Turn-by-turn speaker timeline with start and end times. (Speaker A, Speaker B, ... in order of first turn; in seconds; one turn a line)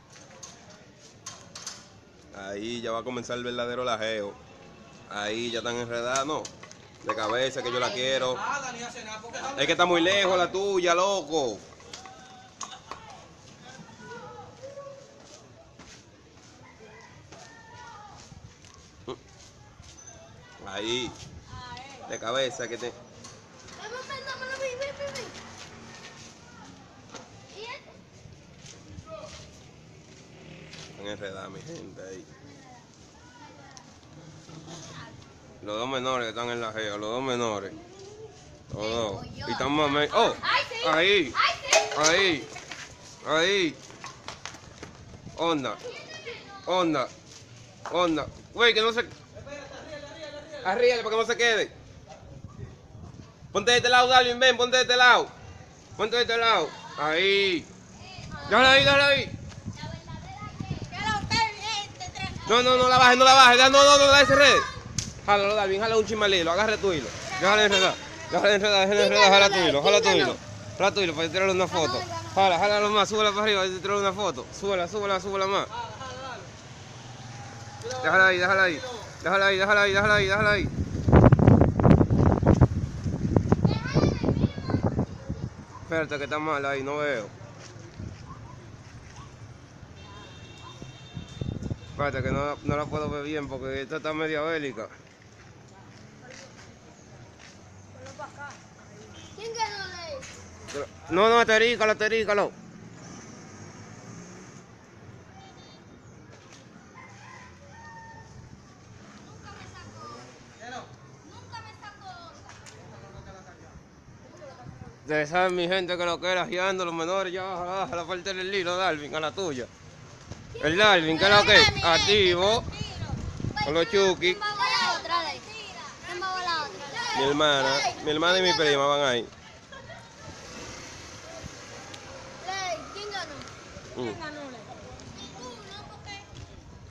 Speaker A: 2.3-4.4
Speaker A: 5.1-6.5
Speaker A: 7.0-8.4
Speaker A: 9.3-11.7
Speaker A: 20.6-21.2
Speaker A: 22.1-22.9
Speaker B: 23.8-25.3
Speaker B: 27.5-27.8
Speaker A: 30.9-32.3
Speaker A: 35.6-37.8
Speaker A: 38.7-41.4
Speaker B: 38.7-42.0
Speaker A: 41.9-42.5
Speaker A: 43.2-43.8
Speaker A: 45.3-45.8
Speaker A: 46.6-47.1
Speaker A: 47.9-49.1
Speaker A: 50.5-51.7
Speaker A: 53.5-55.3
Speaker A: 56.0-57.7
Speaker A: 58.4-59.3
Speaker B: 59.8-64.6
Speaker A: 62.4-64.7
Speaker A: 65.2-75.7
Speaker B: 67.4-68.0
Speaker B: 68.9-70.4
Speaker B: 71.7-72.6
Speaker A: 77.9-80.7
Speaker A: 85.8-87.3
Speaker A: 92.0-94.9
Speaker B: 99.3-100.3
Speaker A: 100.7-102.5
Speaker B: 109.4-110.1
Speaker B: 111.2-112.5
Speaker A: 115.0-119.7
Speaker A: 120.6-122.7
Speaker B: 120.9-128.8
Speaker A: 123.6-124.4
Speaker A: 127.1-129.3
Speaker B: 132.4-133.5
Speaker A: 133.9-134.2
Speaker B: 135.3-136.2